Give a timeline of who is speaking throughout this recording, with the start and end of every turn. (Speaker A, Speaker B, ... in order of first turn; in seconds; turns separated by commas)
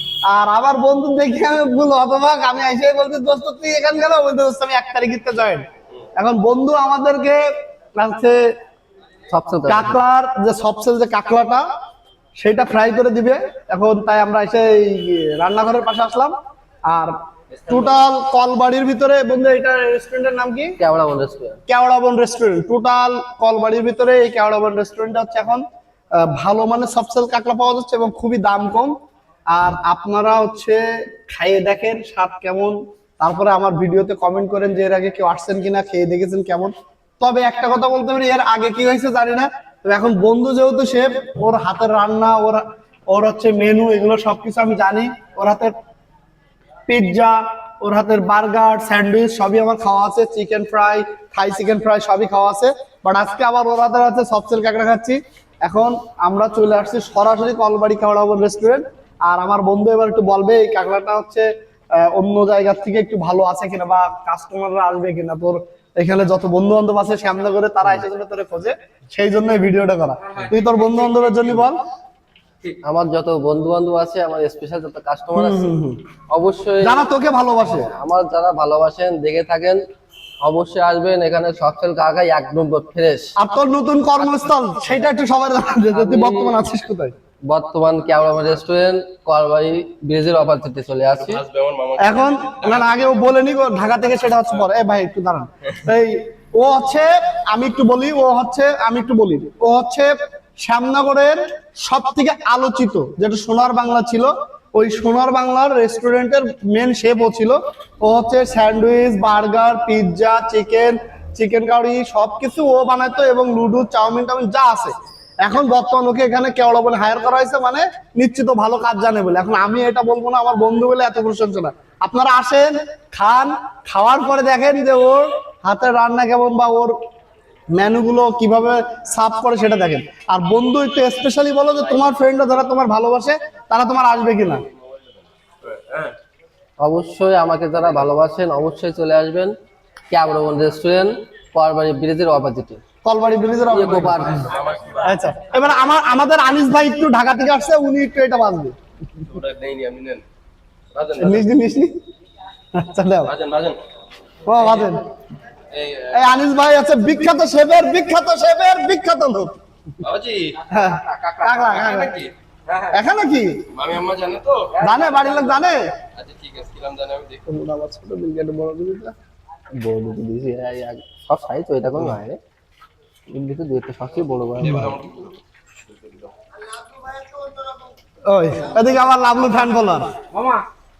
Speaker A: 0.3-5.6, Speaker A: 6.2-7.4, Speaker A: 8.0-8.4, Speaker B: 9.3-10.0, Speaker A: 9.7-11.7, Speaker A: 12.4-16.3, Speaker A: 16.9-17.1, Speaker A: 17.7-20.8, Speaker B: 20.8-21.6, Speaker A: 21.7-25.6, Speaker A: 26.2-28.9, Speaker A: 29.5-45.7, Speaker A: 46.9-61.5, Speaker A: 62.0-71.8, Speaker C: 70.2-71.5, Speaker B: 72.8-75.7, Speaker A: 75.3-76.0, Speaker B: 76.3-77.1, Speaker A: 76.8-77.9, Speaker B: 77.7-79.8, Speaker B: 80.4-83.3, Speaker A: 83.4-87.1, Speaker B: 85.9-86.5, Speaker B: 87.5-91.4, Speaker C: 91.1-93.0, Speaker A: 92.0-126.9, Speaker A: 127.7-134.6, Speaker C: 131.8-132.5, Speaker C: 134.3-136.2, Speaker B: 136.8-139.5, Speaker B: 140.1-142.8, Speaker A: 143.0-144.4, Speaker B: 143.7-144.5, Speaker C: 143.7-145.8, Speaker A: 145.0-148.7, Speaker C: 149.2-150.2, Speaker C: 150.9-151.5, Speaker A: 151.2-151.9, Speaker A: 152.7-153.3, Speaker C: 153.2-153.8, Speaker A: 154.5-155.1, Speaker C: 154.5-155.0, Speaker C: 155.7-156.3, Speaker A: 156.1-159.6, Speaker C: 160.0-160.7, Speaker A: 160.7-162.1, Speaker C: 161.2-163.0, Speaker A: 162.9-163.6, Speaker C: 163.7-165.3, Speaker B: 164.8-165.5, Speaker A: 164.8-165.9, Speaker C: 166.2-167.4, Speaker A: 167.5-169.1, Speaker B: 169.8-172.4, Speaker B: 173.3-175.0, Speaker C: 174.6-176.3, Speaker A: 178.3-180.1